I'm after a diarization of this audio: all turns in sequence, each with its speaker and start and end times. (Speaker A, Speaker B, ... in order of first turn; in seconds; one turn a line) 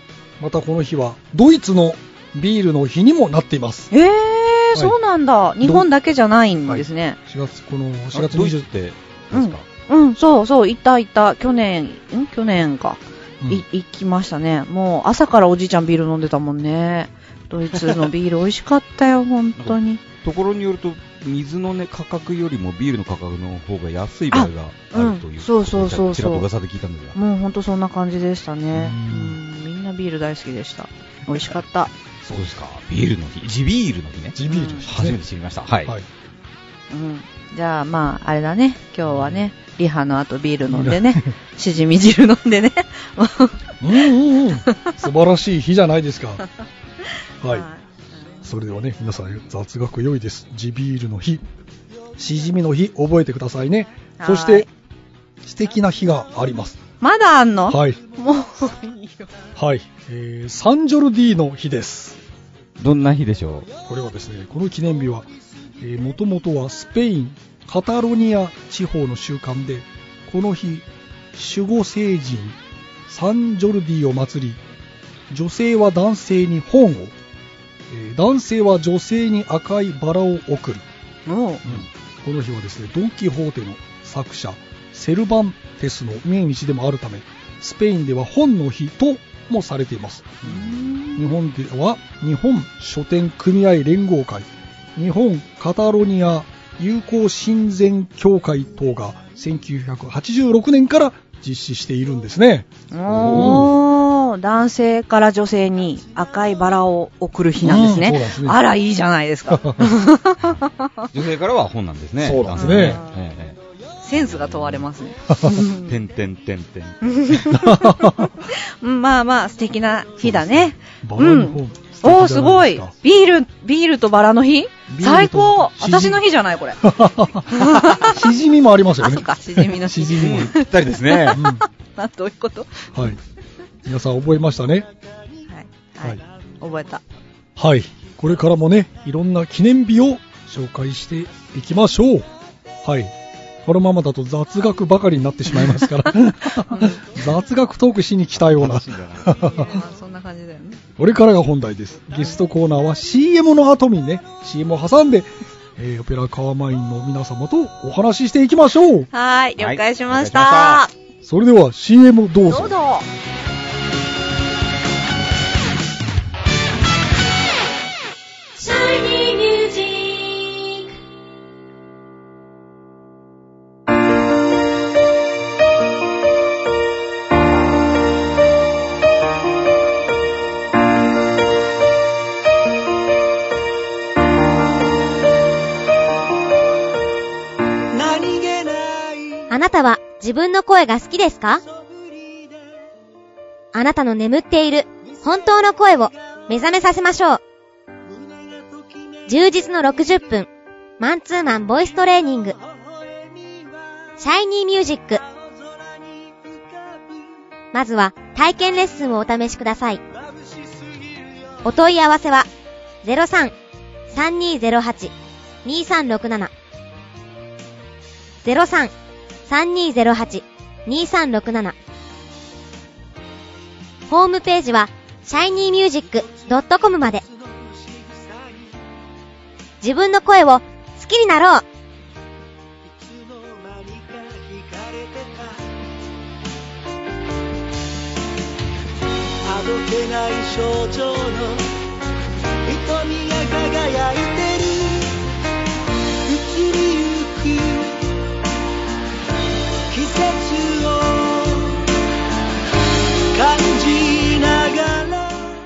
Speaker A: 0.4-3.9
Speaker B: 3.9-7.2
Speaker A: 6.7-8.6
Speaker C: 8.1-9.7
Speaker B: 9.3-20.0
Speaker C: 19.6-27.2
Speaker B: 24.3-26.4
Speaker B: 27.1-31.9
Speaker A: 28.7-29.4
Speaker C: 32.3-35.9
Speaker A: 34.4-35.2
Speaker B: 34.5-34.9
Speaker B: 36.9-44.1
Speaker A: 39.1-39.4
Speaker A: 40.7-41.3
Speaker A: 43.8-46.4
Speaker B: 44.6-45.0
Speaker A: 47.4-47.7
Speaker B: 47.5-47.8
Speaker A: 48.4-51.4
Speaker A: 52.2-54.7
Speaker B: 54.2-54.7
Speaker A: 55.4-56.8
Speaker B: 57.0-59.3
Speaker A: 57.7-58.0
Speaker A: 59.6-62.2
Speaker C: 62.8-63.7
Speaker A: 63.9-65.3
Speaker A: 65.8-74.6
Speaker A: 75.3-77.1
Speaker A: 77.9-80.9
Speaker B: 81.3-81.7
Speaker A: 81.7-102.7
Speaker B: 90.5-91.3
Speaker B: 102.9-111.1
Speaker C: 103.1-103.7
Speaker A: 103.2-103.7
Speaker A: 107.6-108.6
Speaker A: 109.5-109.9
Speaker C: 111.1-113.6
Speaker A: 112.2-113.0
Speaker B: 112.6-113.1
Speaker B: 114.0-115.9
Speaker C: 114.4-114.7
Speaker C: 115.8-117.5
Speaker B: 117.0-128.2
Speaker A: 117.7-118.3
Speaker A: 120.2-122.9
Speaker A: 124.9-126.3
Speaker A: 126.8-130.5
Speaker B: 129.0-132.9
Speaker C: 130.2-131.4
Speaker A: 131.3-131.6
Speaker A: 132.9-133.2
Speaker A: 133.9-134.9
Speaker B: 135.5-137.0
Speaker A: 137.6-142.3
Speaker A: 142.8-143.1
Speaker A: 143.7-149.7
Speaker B: 146.7-147.1
Speaker C: 148.5-149.6
Speaker B: 149.4-150.8
Speaker A: 151.0-159.1
Speaker B: 159.1-160.9
Speaker C: 159.6-160.8
Speaker A: 161.2-162.8
Speaker B: 162.5-163.1
Speaker D: 168.6-170.9
Speaker E: 187.9-189.4
Speaker D: 189.5-191.6
Speaker D: 193.7-197.4
Speaker E: 198.5-199.1
Speaker D: 199.3-200.5
Speaker D: 201.0-202.6
Speaker D: 204.2-205.2
Speaker D: 207.7-210.0
Speaker D: 211.7-212.5
Speaker D: 213.0-213.5
Speaker D: 214.1-215.1
Speaker D: 215.7-216.5
Speaker D: 218.4-218.9
Speaker D: 219.5-221.8
Speaker D: 224.1-227.2
Speaker E: 227.6-228.6
Speaker D: 229.8-231.6
Speaker E: 233.0-235.6
Speaker E: 239.4-241.7
Speaker E: 242.7-245.2
Speaker E: 246.3-248.0
Speaker E: 249.9-251.9
Speaker E: 253.3-255.5